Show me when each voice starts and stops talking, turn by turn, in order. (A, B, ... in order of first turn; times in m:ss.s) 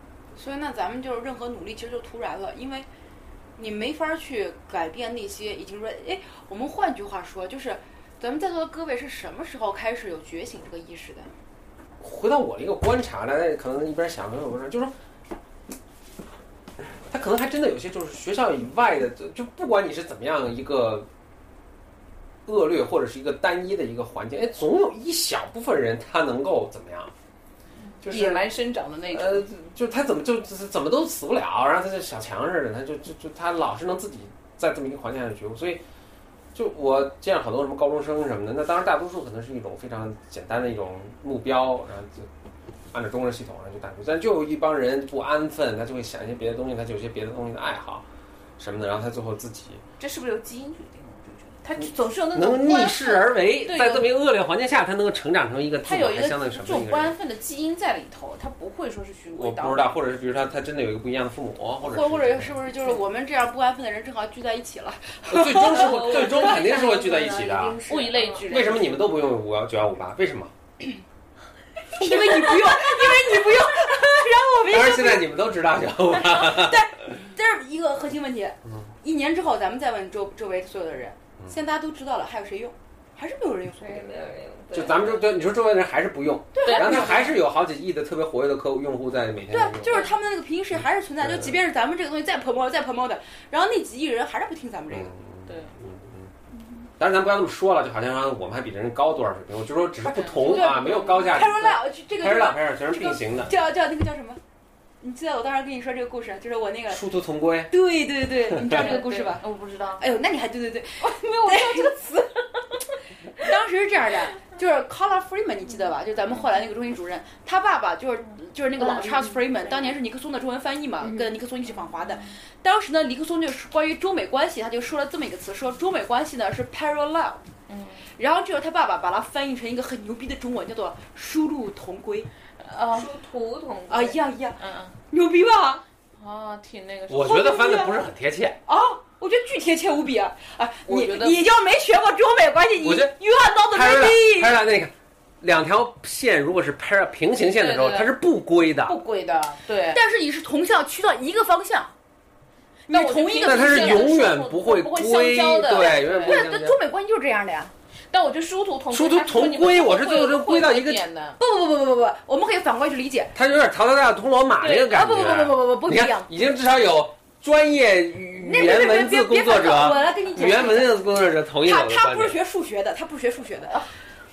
0:00.4-0:02.9 A
0:03.6-0:11.3 A
0:12.0-0:14.9 B
0:17.1-0:21.1 B
0:22.5-0:27.1 B
0:28.0-0:29.5 C
0:28.0-0:28.4 B
0:29.1-0:35.8 B
0:36.5-0:42.3 B
0:42.9-0:48.0 B
0:48.6-0:49.8 B
0:50.0-0:54.0 C
0:52.3-0:57.1 B
0:55.8-0:59.9 C
0:59.3-1:02.6 B
1:01.8-1:06.2 A
1:05.3-1:07.8 B
1:05.6-1:08.4 D
1:07.9-1:09.0 C
1:08.4-1:10.5 B
1:11.9-1:15.3 A
1:14.7-1:16.8 B
1:16.2-1:24.1 A
1:23.8-1:25.4 D
1:24.7-1:30.0 B
1:26.5-1:27.4 A
1:26.6-1:27.2 C
1:29.5-1:35.1 A
1:29.9-1:30.1 C
1:31.2-1:31.5 B
1:34.9-1:36.3 B
1:35.5-1:35.8 C
1:37.0-1:43.5 B
1:40.1-1:44.4 A
1:40.2-1:41.4 C
1:45.0-1:47.0 A
1:46.9-1:47.7 B
1:47.7-1:49.4 A
1:48.6-1:50.0 C
1:50.0-1:52.2 A
1:51.0-1:52.2 C
1:53.4-2:07.4 A
1:58.8-1:59.8 C
2:02.0-2:02.3 C
2:07.7-2:08.1 C
2:08.1-2:12.3 A
2:12.6-2:13.1 C
2:12.9-2:14.2 D
2:13.9-2:15.8 A
2:14.6-2:15.0 C
2:16.2-2:17.4 C
2:17.1-2:18.6 B
2:17.2-2:18.0 A
2:18.6-2:24.5 A
2:20.9-2:21.4 C
2:22.8-2:23.2 B
2:23.7-2:29.0 B
2:27.5-2:28.1 C
2:28.9-2:30.0 C
2:29.9-2:31.9 A
2:32.9-2:34.3 A
2:32.9-2:36.4 C
2:33.4-2:36.8 B
2:36.2-2:37.7 A
2:38.1-2:41.4 C
2:38.9-2:41.0 B
2:41.4-2:43.3 A
2:43.4-2:52.4 B
2:44.6-2:44.9 C
2:44.9-2:46.3 A
2:48.4-2:51.0 A
2:51.6-2:53.9 A